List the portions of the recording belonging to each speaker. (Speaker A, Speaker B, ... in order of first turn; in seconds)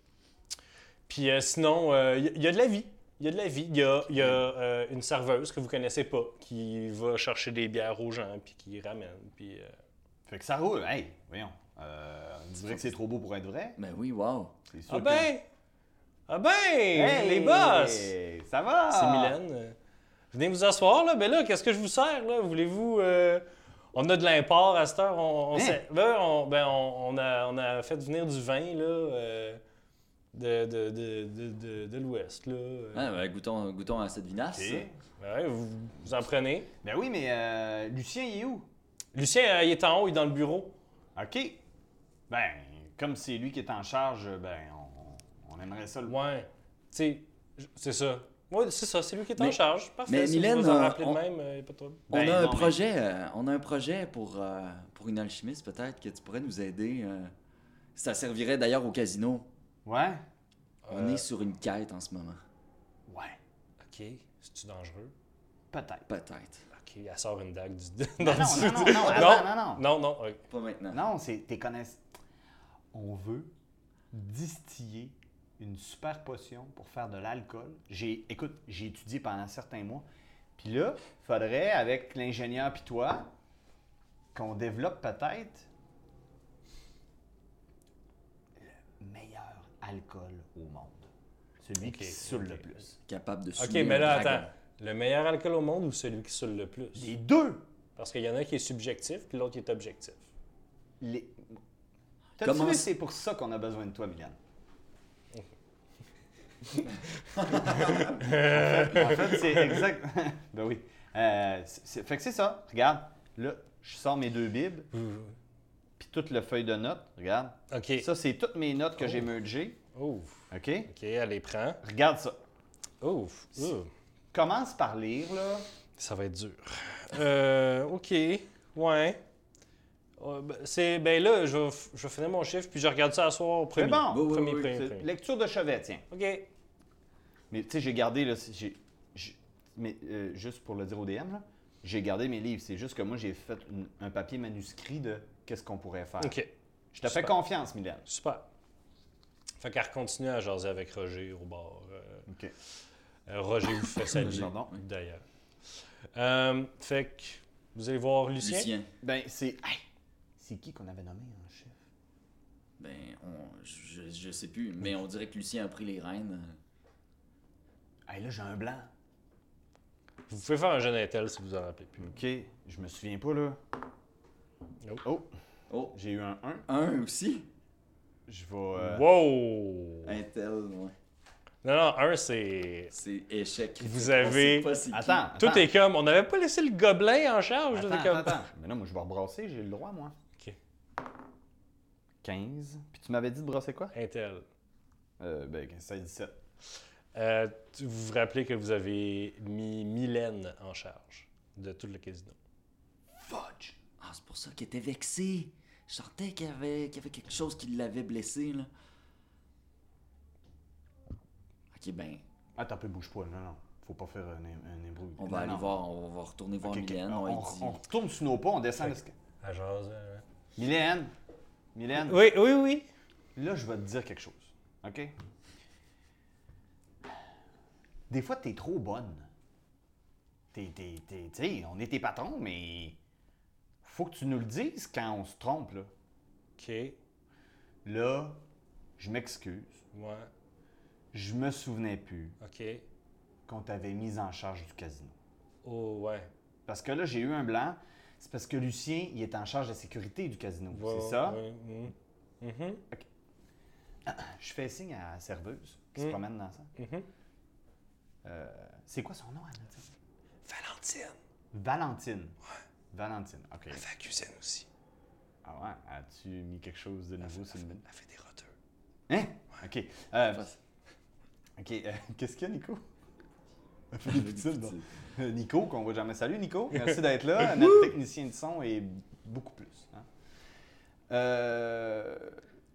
Speaker A: 1.1-9.7, 14.9-15.4, 16.3-18.1, 18.9-19.8, 20.3-29.6, 30.3-33.1, 35.2-36.7, 39.1-40.8, 46.1-52.1, 60.8-61.2, 63.8-65.1, 66.7-70.4, 91.8-92.6, 93.6-97.1, 98.0-100.2, 106.7-109.8, 114.9-115.3, 117.7-118.1, 119.0-119.3, 119.9-121.8, 123.0-123.9, 126.0-129.2, 130.2-135.1, 136.1-136.5, 146.2-146.5, 147.0-147.3, 148.1-148.5, 149.6-152.3, 153.3-158.7, 170.3-172.1, 178.8-180.2, 181.6-182.9, 183.8-184.7, 185.3-188.5, 193.9-194.4, 197.1-202.4, 218.8-220.2, 222.0-222.9, 236.6-237.0, 239.9-240.3, 242.4-242.8, 245.6-246.3, 250.7-252.8, 256.8-257.1, 260.4-261.2, 263.7-264.7, 267.3-268.5
Speaker B: 10.2-13.8, 14.7-15.3, 16.9-19.4, 25.5-25.8, 34.5-35.0, 36.8-38.7, 41.1-41.6, 42.3-46.2, 52.1-52.8, 59.8-60.2, 63.1-63.4, 65.7-66.1, 68.2-69.8, 70.9-72.1, 72.9-73.5, 74.1-83.3, 84.3-85.7, 88.6-91.1, 91.6-93.0, 97.0-97.6, 101.0-101.6, 102.4-104.4, 108.2-114.9, 116.0-119.8, 120.5-120.9, 121.8-122.4, 124.3-125.7, 133.7-136.0, 137.5-146.4, 146.9-148.0, 152.3-152.5, 154.1-154.8, 159.0-159.8, 160.4-161.8, 168.1-168.9, 172.0-173.6, 175.0-175.3, 175.9-176.7, 178.3-179.1, 184.9-185.7, 187.7-190.1, 192.2-193.9, 195.2-196.4, 203.2-203.8, 212.6-215.8, 216.6-219.1, 220.6-221.1, 221.7-222.2, 223.3-225.1, 228.1-229.3, 230.5-233.0, 233.8-235.9, 237.8-238.4, 239.0-239.8, 241.1-242.4, 243.4-245.2, 246.7-251.4, 254.0-256.7, 258.2-259.9, 261.5-262.4, 262.9-263.8, 265.4-267.8, 269.1-270.5, 271.6-272.8, 273.9-280.1, 281.1-282.4
Speaker C: 13.8-14.6, 32.9-34.9, 49.4-51.2, 52.1-57.3, 58.0-59.5, 60.9-62.4, 66.1-66.7, 68.8-69.3, 70.5-71.0, 93.1-94.5, 102.4-102.9, 107.4-108.2, 134.1-134.8, 154.2-154.8, 158.4-158.9, 162.8-166.6, 175.7-175.9, 176.7-177.5, 180.0-180.9, 182.9-185.2, 204.0-208.7, 211.7-212.2, 215.2-217.8, 274.0-274.9